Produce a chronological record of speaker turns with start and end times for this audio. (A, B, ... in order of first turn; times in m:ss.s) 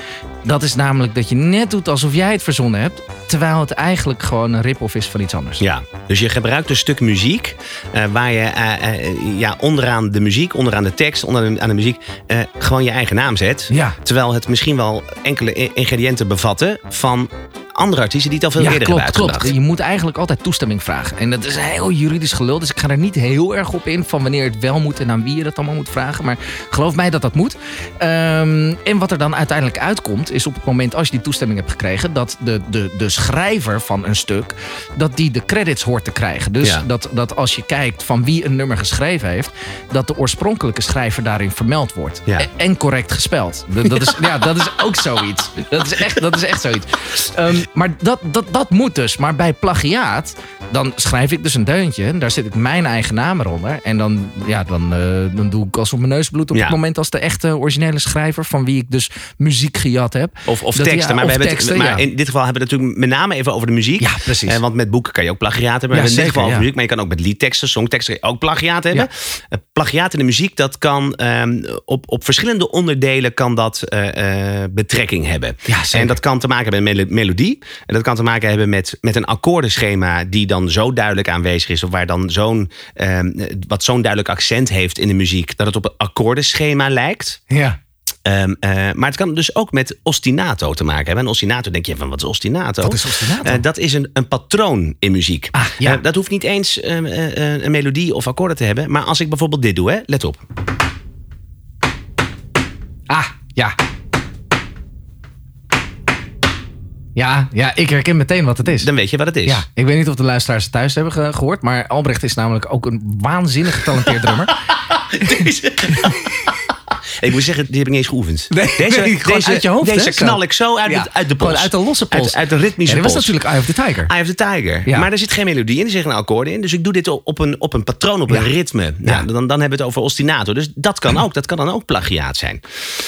0:00.4-0:05.6 A
0:05.6-0:19.5 B
0:13.7-0:14.0 A
0:18.6-1:02.0 A
1:00.5-1:27.4 B
1:04.0-1:04.6 A
1:05.9-1:06.7 A
1:15.7-1:16.2 A
1:27.5-1:27.8 A
1:28.2-1:40.4 B
1:32.8-1:33.6 A
1:35.6-1:36.0 A
1:43.1-1:43.8 A
1:47.1-1:48.9 A
1:48.7-1:49.6 B
1:49.4-1:54.5 A
1:54.9-1:56.2 B
1:57.2-2:03.3 B
1:58.5-2:04.1 A
2:04.1-2:12.6 B